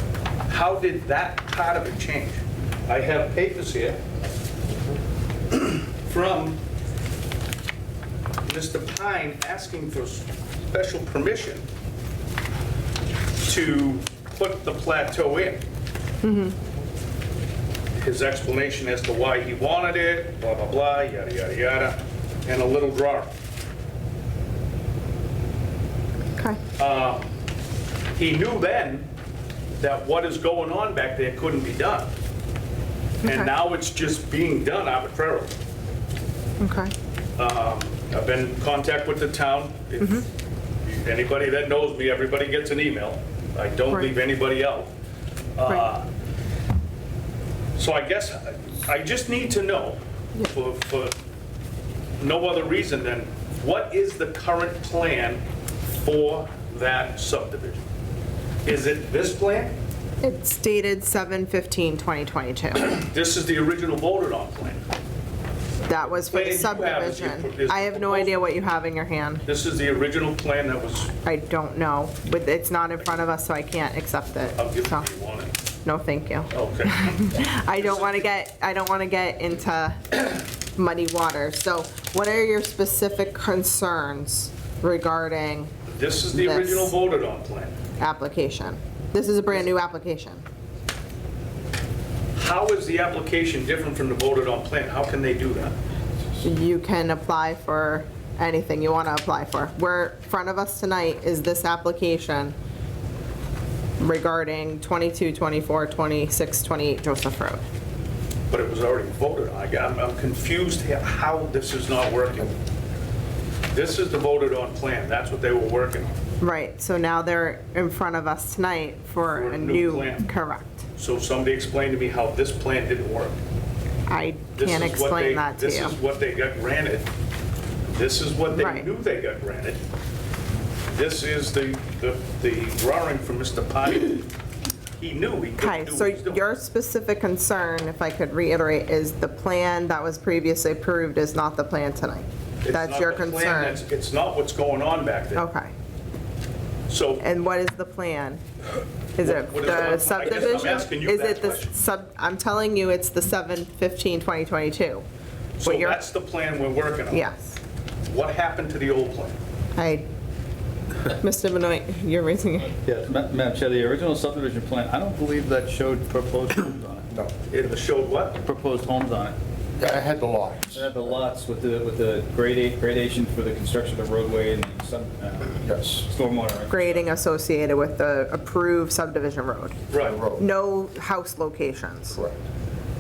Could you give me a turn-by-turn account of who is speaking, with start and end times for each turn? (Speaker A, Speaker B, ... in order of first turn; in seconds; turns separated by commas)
Speaker A: 0.5-4.0, Speaker A: 5.5-6.6, Speaker A: 8.5-11.7, Speaker A: 13.4-15.6, Speaker B: 16.2-16.6, Speaker A: 18.0-23.3, Speaker A: 26.8-27.3, Speaker A: 28.2-29.1, Speaker A: 29.8-32.1, Speaker B: 33.2-33.5, Speaker A: 33.2-35.5, Speaker B: 36.6-36.9, Speaker A: 37.4-40.2, Speaker A: 40.9-44.9, Speaker A: 45.6-46.1, Speaker A: 47.8-51.1, Speaker A: 52.2-55.4, Speaker A: 56.0-57.9, Speaker A: 58.6-59.8, Speaker B: 60.2-62.9, Speaker A: 62.8-64.8, Speaker B: 65.9-69.4, Speaker A: 66.0-68.3, Speaker A: 69.5-71.1, Speaker B: 71.2-75.0, Speaker A: 74.5-75.5, Speaker B: 75.8-85.7, Speaker A: 76.5-78.1, Speaker A: 85.9-87.8, Speaker B: 86.3-86.9, Speaker B: 88.0-90.5, Speaker A: 92.3-95.8, Speaker B: 96.4-102.5, Speaker B: 104.0-107.6, Speaker A: 108.5-112.5, Speaker A: 113.7-116.2, Speaker B: 116.4-120.8, Speaker A: 119.2-120.2, Speaker A: 121.0-123.4, Speaker B: 124.1-125.9, Speaker A: 124.6-127.1, Speaker A: 127.9-129.8, Speaker B: 128.5-128.9, Speaker A: 130.9-134.3, Speaker A: 135.0-136.4, Speaker B: 135.6-143.8, Speaker A: 142.6-145.4, Speaker B: 145.4-145.7, Speaker A: 146.9-147.2, Speaker B: 147.2-148.4, Speaker B: 149.2-155.0, Speaker A: 149.2-151.7, Speaker A: 155.6-157.3, Speaker B: 155.6-156.0, Speaker B: 157.1-157.6, Speaker A: 158.1-159.4, Speaker B: 159.8-160.1, Speaker B: 161.1-162.8, Speaker C: 162.8-167.1, Speaker A: 167.5-168.4, Speaker C: 168.4-169.4, Speaker D: 169.8-170.8, Speaker C: 170.7-177.0, Speaker D: 175.7-176.0, Speaker B: 176.7-179.8, Speaker A: 179.9-180.2, Speaker D: 180.0-180.4, Speaker B: 180.4-182.2, Speaker D: 182.1-182.4